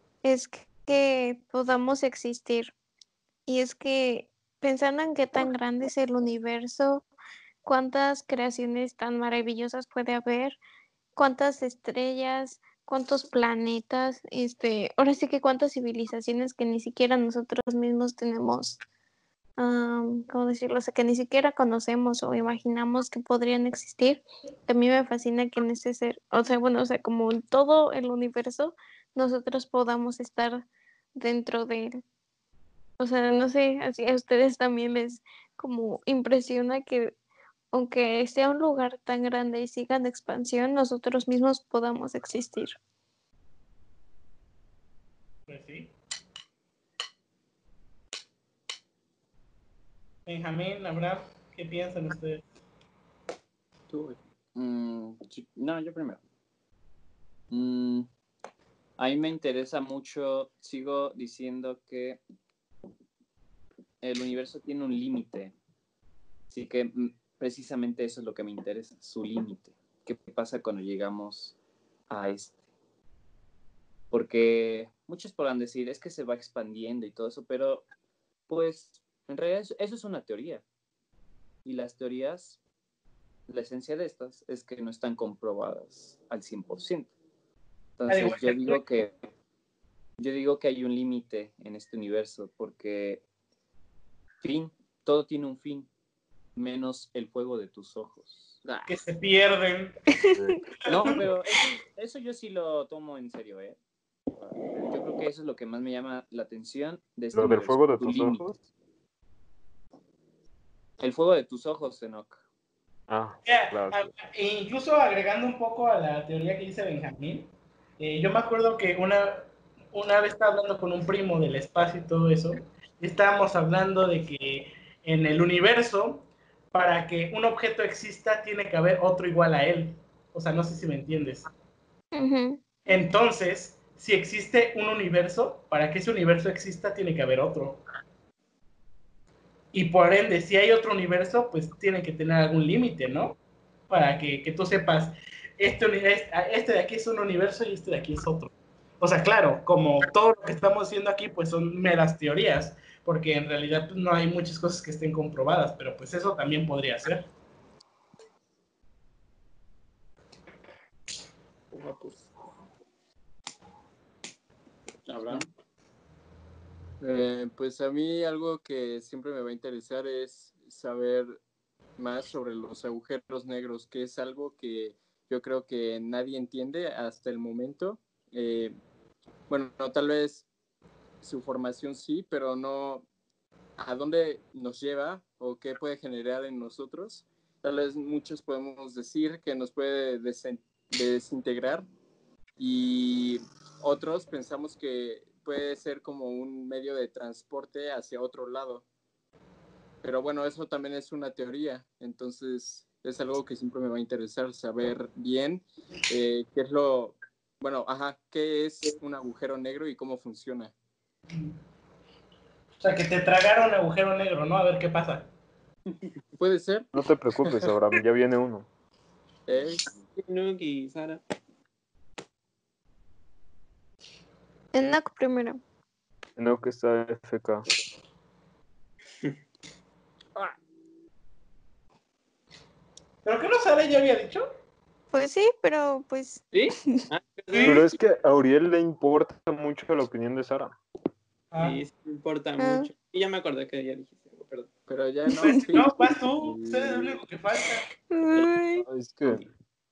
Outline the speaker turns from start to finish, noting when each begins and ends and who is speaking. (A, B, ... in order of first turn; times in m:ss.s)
0:00.2-0:02.7 A
0:03.5-0:07.0 A
0:07.6-0:10.6 A
0:11.2-0:18.8 A
0:19.6-0:32.0 A
0:33.0-0:37.1 A
0:37.7-0:42.8 A
0:45.5-0:45.9 B
0:50.3-0:52.4 B
0:53.9-0:56.2 C
0:57.5-0:58.1 C
0:59.0-1:02.2 C
1:04.0-1:05.5 C
1:06.5-1:11.6 C
1:12.1-1:12.6 C
1:14.1-1:17.8 C
1:18.5-1:20.6 C
1:21.6-1:22.6 C
1:23.5-1:27.1 C
1:28.0-1:29.1 C
1:28.1-1:28.8 B
1:30.2-1:33.2 C
1:34.4-1:35.9 C
1:36.6-1:38.9 C
1:38.9-1:40.1 B
1:40.8-1:43.8 C
1:40.9-1:41.2 B
1:44.3-1:48.4 C
1:47.3-1:48.6 D
1:51.0-1:52.4 C
1:53.1-1:54.1 D
1:53.4-1:59.4 B
1:59.9-2:11.5 B
2:12.1-2:12.6 A
2:12.8-2:17.8 B
2:19.7-2:23.4 B
2:23.9-2:37.3 B
2:41.7-2:42.2 E
2:45.1-2:45.5 C
2:47.0-2:51.4 F
2:52.0-2:58.8 F
2:59.5-3:00.4 F
3:01.2-3:03.1 F
3:03.8-3:11.9 F
3:12.6-3:18.8 F
3:20.0-3:30.7 F
3:32.8-3:35.3 B
3:36.4-3:36.9 F
3:36.9-3:38.7 D
3:39.5-3:39.8 F
3:40.2-3:41.2 E
3:44.7-3:45.6 A
3:46.4-3:47.6 D
3:53.2-3:54.5 B
3:55.1-3:57.0 A
3:57.1-3:57.8 E
3:57.5-3:57.8 B
3:57.6-4:00.7 D
4:01.5-4:01.8 B
4:01.6-4:04.7 E
4:02.6-4:02.9 A
4:04.9-4:07.2 F
4:05.4-4:07.9 B
4:08.1-4:08.8 A
4:08.9-4:09.4 D